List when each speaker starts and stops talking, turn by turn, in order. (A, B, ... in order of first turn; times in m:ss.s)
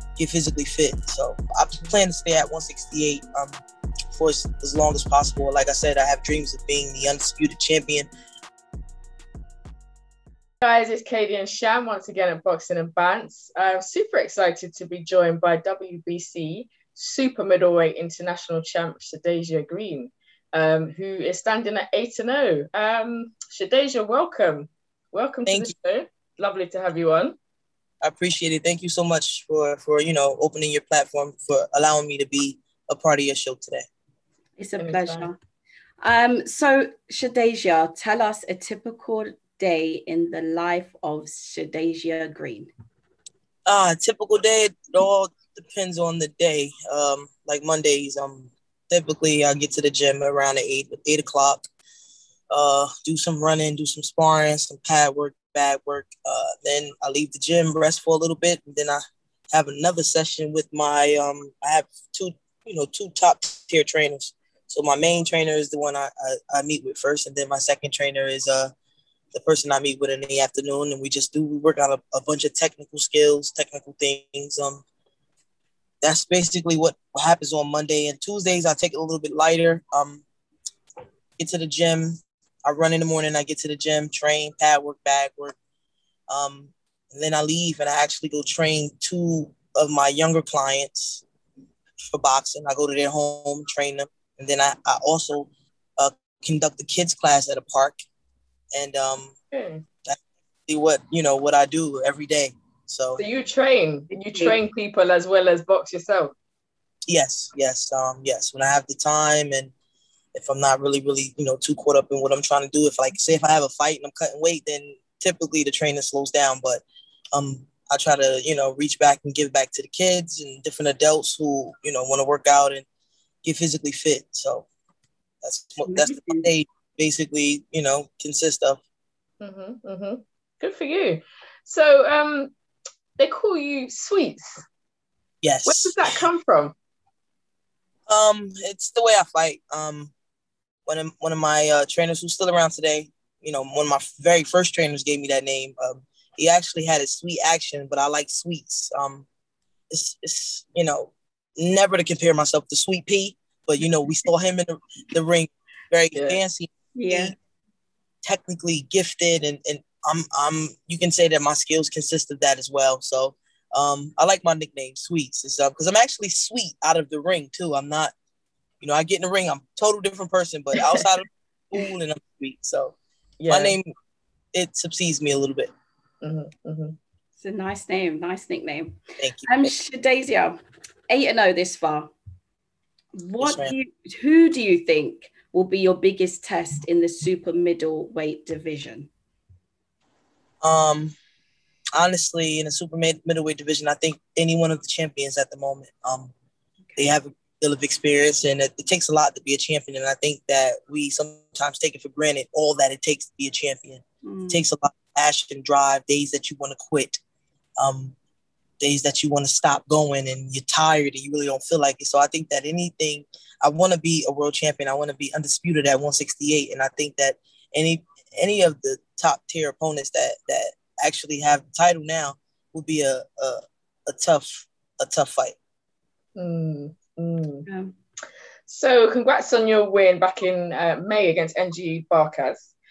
0:00.2-0:03.6 A
0:04.1-0:08.1 A
0:10.6-0:27.4 B
0:25.4-0:25.7 A
0:28.0-0:33.8 A
0:34.6-0:35.4 C
0:34.8-0:35.3 B
0:36.0-0:42.7 C
0:43.6-0:51.6 A
0:52.5-0:59.0 A
0:59.5-1:08.7 A
1:09.3-1:14.8 A
1:16.0-1:20.2 A
1:21.4-1:25.6 A
1:26.3-1:31.2 A
1:32.1-1:38.0 A
1:38.7-1:39.3 A
1:39.5-1:39.8 B
1:40.1-1:43.2 A
1:43.2-1:46.3 B
1:44.1-1:44.6 C
1:47.1-1:49.7 A
1:50.3-2:02.8 A
2:03.4-2:04.7 A
2:05.4-2:08.8 A
2:05.8-2:06.5 C
2:09.4-2:12.5 B
2:13.2-2:14.6 B
2:15.4-2:16.2 A
2:15.6-2:16.8 B
2:18.1-2:20.1 A
2:20.8-2:29.2 A
2:29.9-2:37.4 A
2:36.1-2:36.4 B
2:36.9-2:37.3 C
2:38.2-2:48.1 A
2:48.8-2:52.9 A
2:53.4-2:53.8 B
2:53.5-2:53.9 A
2:54.5-2:55.7 A
2:56.2-2:57.0 B
2:57.4-3:00.6 C
2:59.2-2:59.7 A
3:01.1-3:02.1 C
3:03.1-3:09.1 C
3:03.4-3:03.7 A
3:10.6-3:11.2 A
3:12.0-3:16.3 A
3:16.9-3:17.1 C
3:17.0-3:27.2 A
3:24.2-3:24.6 C
3:27.8-3:28.1 A
3:28.8-3:45.6 A
3:46.3-3:47.7 B
3:47.6-3:47.9 C
3:48.7-3:52.7 B